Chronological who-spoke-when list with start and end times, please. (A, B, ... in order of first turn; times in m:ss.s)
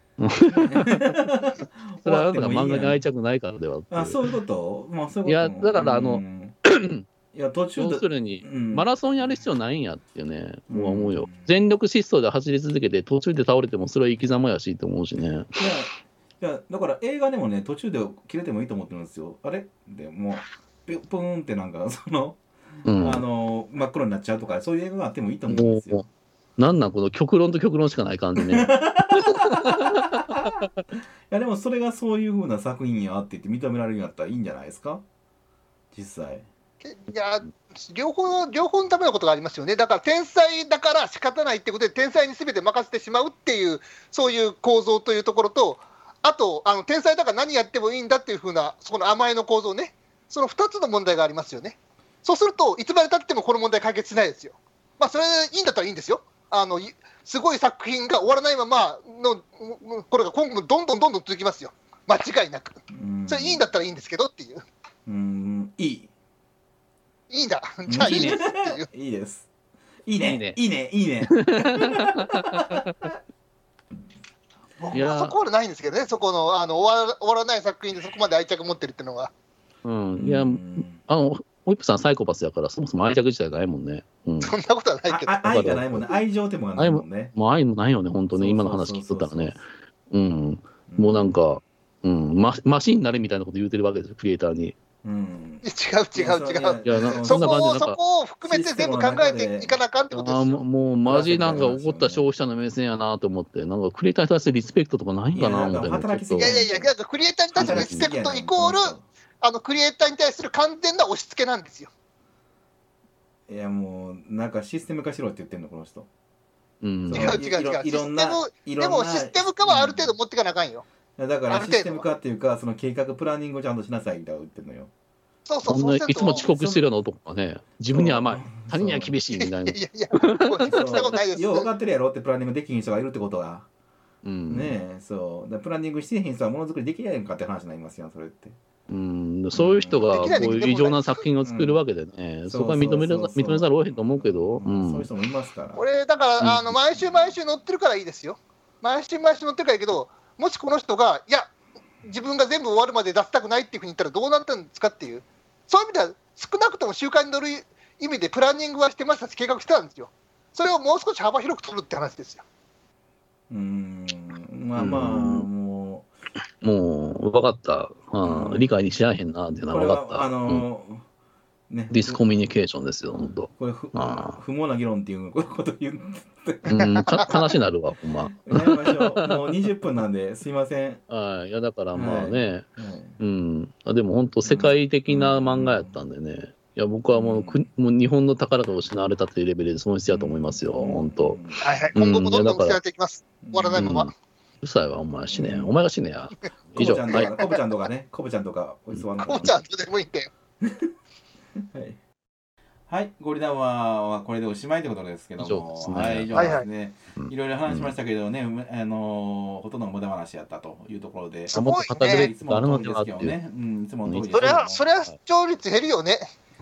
0:00.2-0:01.2 A
0:00.5-0:03.0 B
0:02.0-0:04.2 A
0:03.9-0:06.6 B
0:05.3-0:07.0 A
0:07.3-0:08.9 B
0:07.8-0:15.7 A
0:10.7-0:11.5 B
0:15.6-0:26.0 B
0:22.8-0:23.2 A
0:25.5-0:26.0 A
0:26.6-0:30.8 A
0:28.4-0:30.7 B
0:31.3-0:35.0 B
0:35.9-0:36.5 B
0:36.8-1:04.6 C
1:02.9-1:03.7 B
1:05.1-1:06.1 B
1:07.3-1:08.9 C
1:07.9-1:09.5 B
1:07.9-1:08.4 A
1:10.1-1:13.1 B
1:10.2-1:10.6 A
1:11.3-1:13.1 A
1:14.8-1:19.3 C
1:14.9-1:15.3 A
1:19.8-1:24.5 A
1:20.2-1:21.0 B
1:24.4-1:25.4 C
1:25.1-1:27.3 B
1:25.4-1:26.1 A
1:26.8-1:34.8 A
1:28.3-1:29.6 B
1:30.9-1:31.3 B
1:35.0-1:37.6 B
1:35.6-1:40.6 C
1:36.8-1:38.0 A
1:38.4-1:39.8 B
1:40.1-1:46.6 A
1:41.0-1:42.2 B
1:45.3-1:46.9 B
1:46.4-1:51.9 C
1:47.6-1:49.0 B
1:47.6-1:48.1 A
1:53.5-1:56.1 B
1:56.8-1:57.4 A
1:57.0-2:00.1 B
1:57.1-2:00.9 C
2:01.2-2:04.9 B
2:01.5-2:02.0 C
2:05.5-2:06.5 C
2:05.6-2:11.1 A
2:06.4-2:06.9 B
2:07.9-2:09.1 B
2:09.3-2:11.7 C
2:10.7-2:13.7 B
2:14.2-2:14.7 A
2:14.5-2:18.6 B
2:18.9-2:25.1 A
2:19.5-2:20.6 B
2:20.1-2:21.2 C
2:21.4-2:21.8 B
2:22.5-2:25.8 B
2:25.8-2:31.5 C
2:26.4-2:26.8 A
2:32.0-2:42.4 C
2:43.5-2:46.1 B
2:44.8-2:45.5 A
2:46.6-2:50.6 A
2:48.2-2:48.7 B
2:49.7-2:51.0 B
2:51.7-2:52.2 B
2:51.9-2:54.4 A
2:53.6-2:57.5 B
2:56.7-2:59.4 A
2:56.7-2:57.3 C
2:58.3-3:01.0 B
3:01.1-3:02.6 A
3:01.9-3:03.2 B
3:03.2-3:11.4 A
3:04.4-3:06.0 B
3:07.1-3:07.6 B
3:10.1-3:11.9 B
3:11.6-3:14.1 C
3:12.0-3:12.8 A
3:13.4-3:14.0 B
3:13.8-3:14.1 A
3:14.6-3:17.3 A
3:15.3-3:15.7 B
3:16.8-3:19.6 B
3:17.2-3:17.6 C
3:19.2-3:20.3 C
3:20.6-3:20.9 B
3:21.6-3:22.0 B
3:22.9-3:34.8 B
3:25.4-3:26.6 A
3:26.3-3:26.6 C
3:27.2-3:28.0 A
3:31.5-3:32.3 C
3:31.5-3:33.4 A
3:34.1-3:35.1 A
3:34.3-3:36.3 C